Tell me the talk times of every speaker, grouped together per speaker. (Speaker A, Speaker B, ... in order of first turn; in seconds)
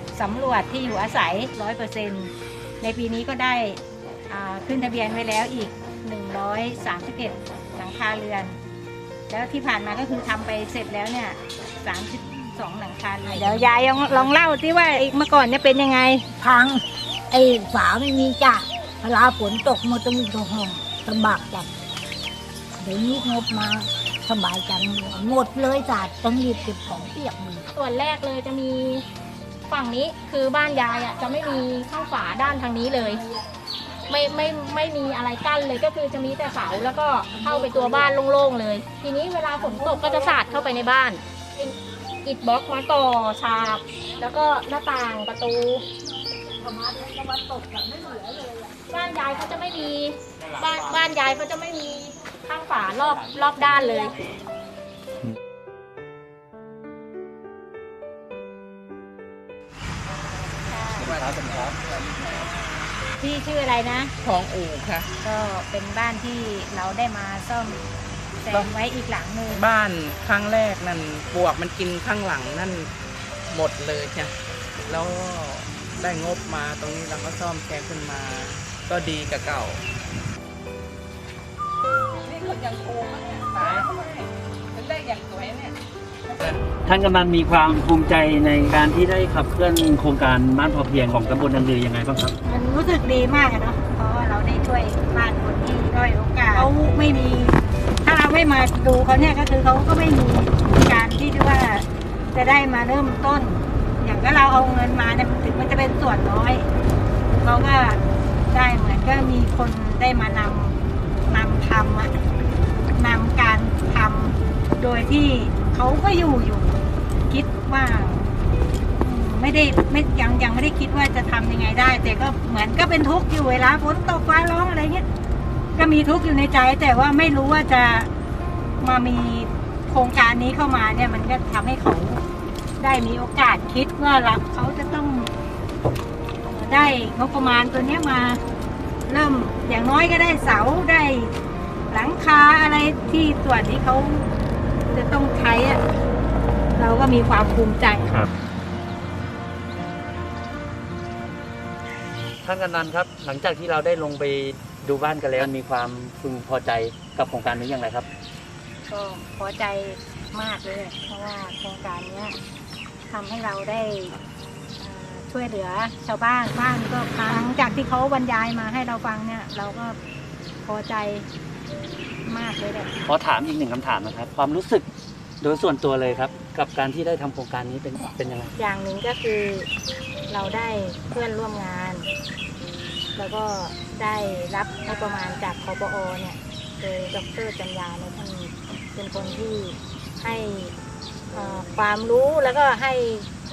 Speaker A: 0.1-8.6, 9.3-16.2, 60.6-61.1, 63.2-64.1, 65.2-67.8, 68.4-69.6, 92.4-106.7, 107.3-112.1, 112.9-118.3, 119.0-125.0, 125.7-128.1, 128.8-132.2, 132.8-135.3, 136.5-138.4, 139.1-141.3, 141.9-144.3, 144.9-145.8, 146.8-148.2, 158.9-162.4, 163.1-164.2, 164.8-170.0, 170.6-171.3, 172.2-172.9, 178.6-179.7, 180.3-182.1, 183.2-190.7, 191.3-193.3
Speaker B: 13.3-14.2, 16.4-21.7, 22.8-27.7, 37.3-38.0, 39.6-40.5, 46.5-48.8
Speaker C: 27.7-29.0, 29.7-33.2, 34.1-45.8, 48.9-54.1
Speaker D: 61.0-61.8, 86.7-92.3, 152.4-158.1, 173.1-174.8, 175.4-178.5
Speaker E: 61.0-62.9, 64.2-65.1, 69.5-72.9, 73.5-74.3, 74.9-79.8, 82.2-85.7